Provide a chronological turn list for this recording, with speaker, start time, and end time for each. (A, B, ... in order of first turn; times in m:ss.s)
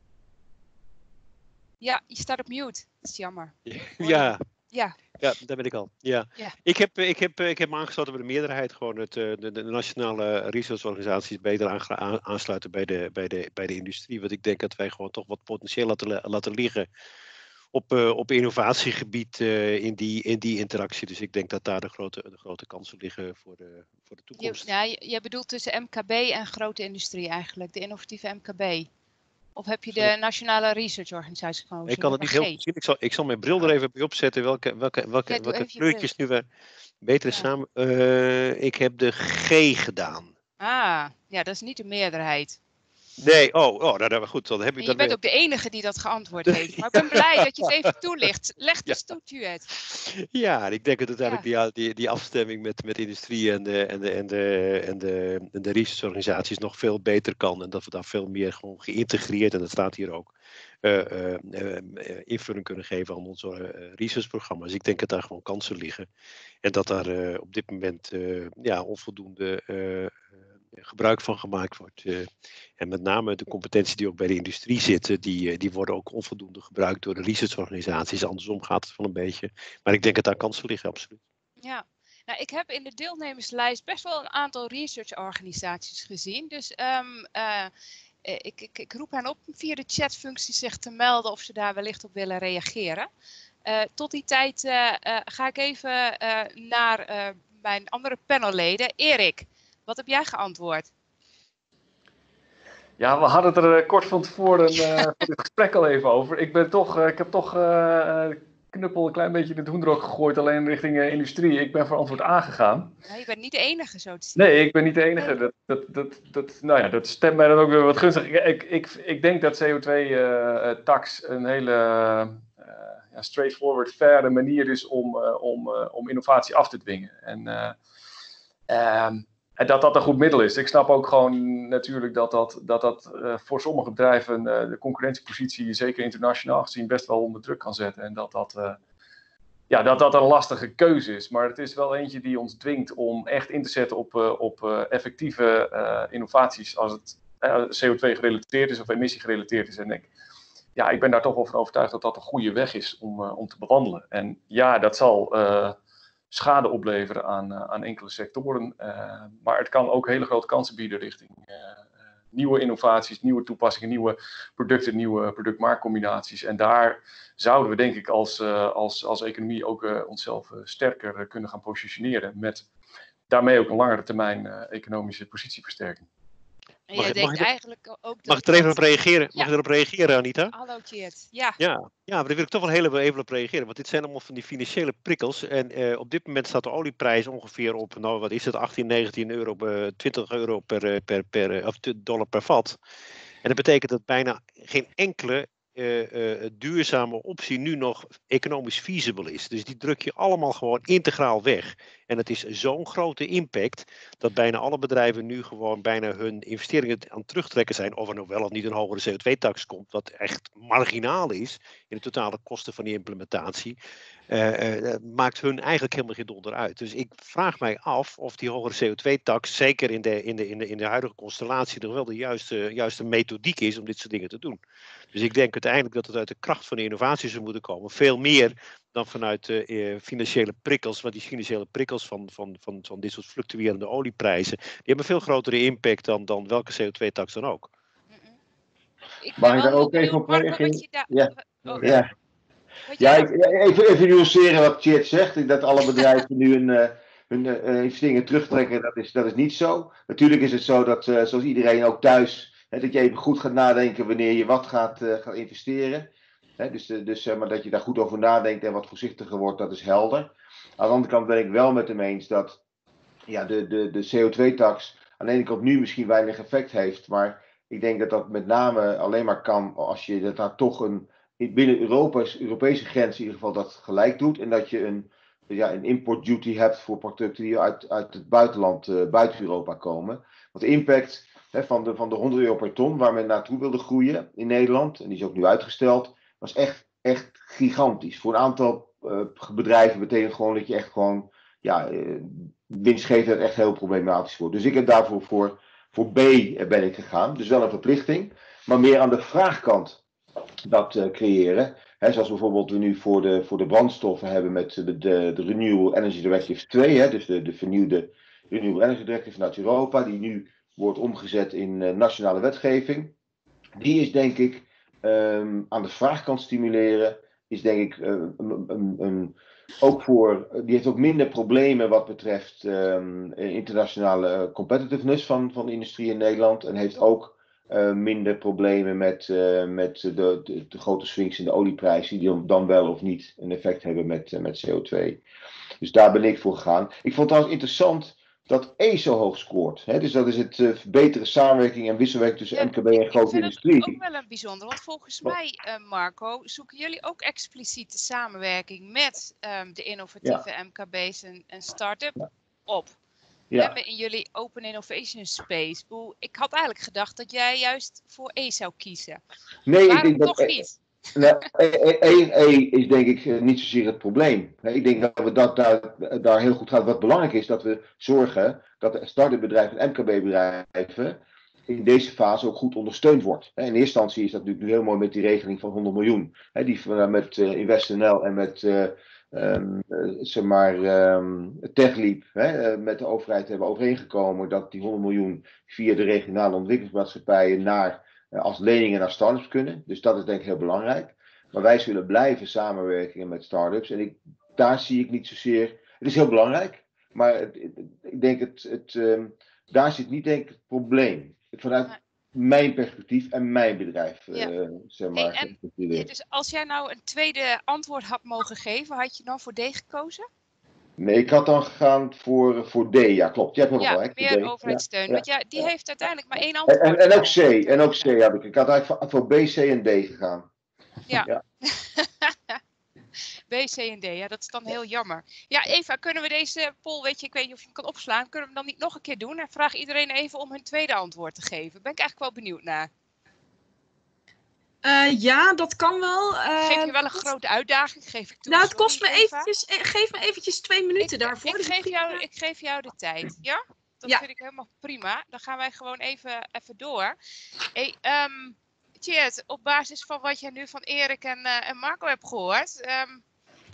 0:01.8-0:05.0 A
0:03.7-0:04.4 B
0:05.2-0:16.9 B
0:17.7-0:24.7 B
0:24.4-0:28.9 A
0:29.6-0:32.6 A
0:31.9-0:36.5 B
0:35.3-0:36.1 A
0:37.0-0:40.3 B
0:40.6-0:42.6 A
0:43.2-0:45.2 B
0:44.8-0:49.7 A
0:46.5-0:47.7 B
0:49.8-1:00.3 B
1:00.8-1:06.1 B
1:06.6-1:21.2 B
1:21.6-1:27.7 A
1:28.2-1:33.1 A
1:33.7-1:40.9 A
1:43.0-1:52.9 C
1:53.1-1:54.4 A
1:54.4-2:07.8 C
2:08.7-2:18.8 C
2:19.7-2:30.1 C
2:30.8-2:35.8 C
2:36.3-2:41.8 C
2:42.3-2:52.7 C
2:53.3-2:56.0 C
2:56.9-2:58.8 A
2:57.0-2:57.5 B
2:58.3-3:00.6 B
3:00.5-3:01.6 A
3:01.6-3:12.8 B
3:13.4-3:33.8 B
3:34.3-3:44.6 B
3:45.1-3:57.7 B
3:58.1-3:58.4 A
3:59.2-4:01.9 A
3:59.4-4:02.1 D
4:02.9-4:03.4 A
4:03.0-4:22.6 D
4:23.3-5:00.0 D
5:00.6-5:13.1 D
5:13.8-5:35.2 D
5:35.8-5:44.0 D
5:42.5-5:53.0 A
5:53.6-5:59.2 A
5:59.7-6:00.6 D
5:59.9-6:01.2 A
6:01.2-6:46.1 D
6:45.2-6:50.3 A
6:51.0-6:55.7 D
6:53.8-6:58.1 A
6:56.7-7:00.5 D
7:01.1-7:02.6 A
7:03.5-7:12.9 A
7:14.8-7:17.3 E
7:16.6-7:19.5 A
7:18.5-7:22.2 E
7:21.0-7:27.2 A
7:27.7-7:33.2 A